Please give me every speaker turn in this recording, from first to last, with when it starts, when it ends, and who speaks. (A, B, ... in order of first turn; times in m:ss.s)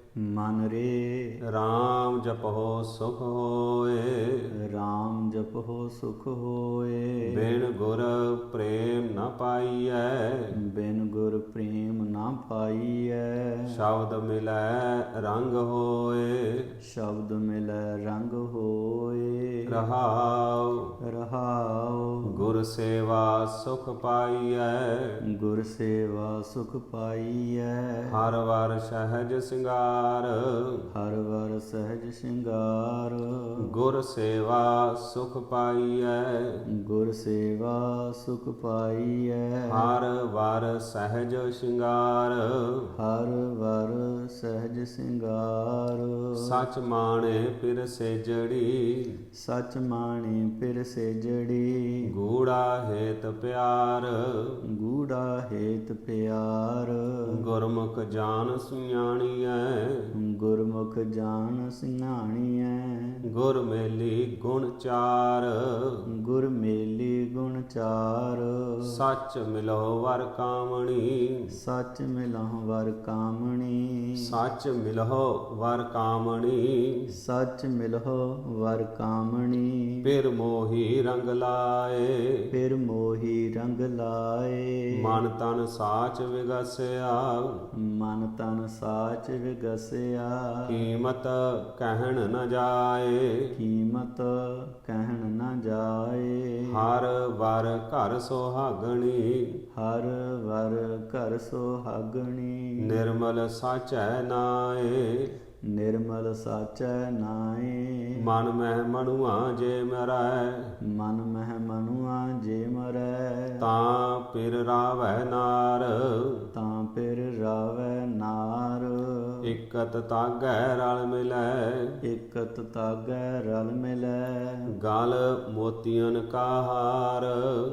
0:00.2-0:01.4 A
0:01.5-0:04.5 B
0:04.7-0:07.3 A
0:07.2-0:10.5 B
0:10.7-0:13.7 A
0:13.7-0:16.6 B
0:16.9-0:19.6 A
0:19.7-0:20.9 B
0:21.1-0:22.4 A
0:22.3-0:25.2 B
0:25.3-0:28.1 A
0:28.1-0:30.9 B
0:30.9-0:33.6 A
0:33.6-0:36.6 B
0:36.8-0:39.9 A
0:39.7-0:42.9 B
0:43.0-0:46.6 A
0:46.4-0:49.2 B
0:49.4-0:52.0 A
0:52.1-0:54.6 B
0:54.8-0:57.0 A
0:57.3-1:00.1 B
1:00.2-1:03.2 A
1:03.3-1:06.0 B
1:06.2-1:08.9 A
1:08.8-1:11.5 B
1:11.5-1:14.3 A
1:14.2-1:17.1 B
1:17.2-1:20.0 A
1:20.0-1:22.4 B
1:22.5-1:25.2 A
1:25.0-1:27.6 B
1:27.8-1:30.7 A
1:30.7-1:33.5 B
1:33.6-1:36.8 A
1:36.7-1:39.6 B
1:39.8-1:42.8 A
1:42.8-1:45.4 B
1:45.7-1:48.2 A
1:48.2-1:50.7 B
1:50.9-1:53.6 A
1:53.6-1:56.3 B
1:56.5-1:59.4 A
1:59.4-2:02.0 B
2:02.1-2:04.6 A
2:04.8-2:07.6 B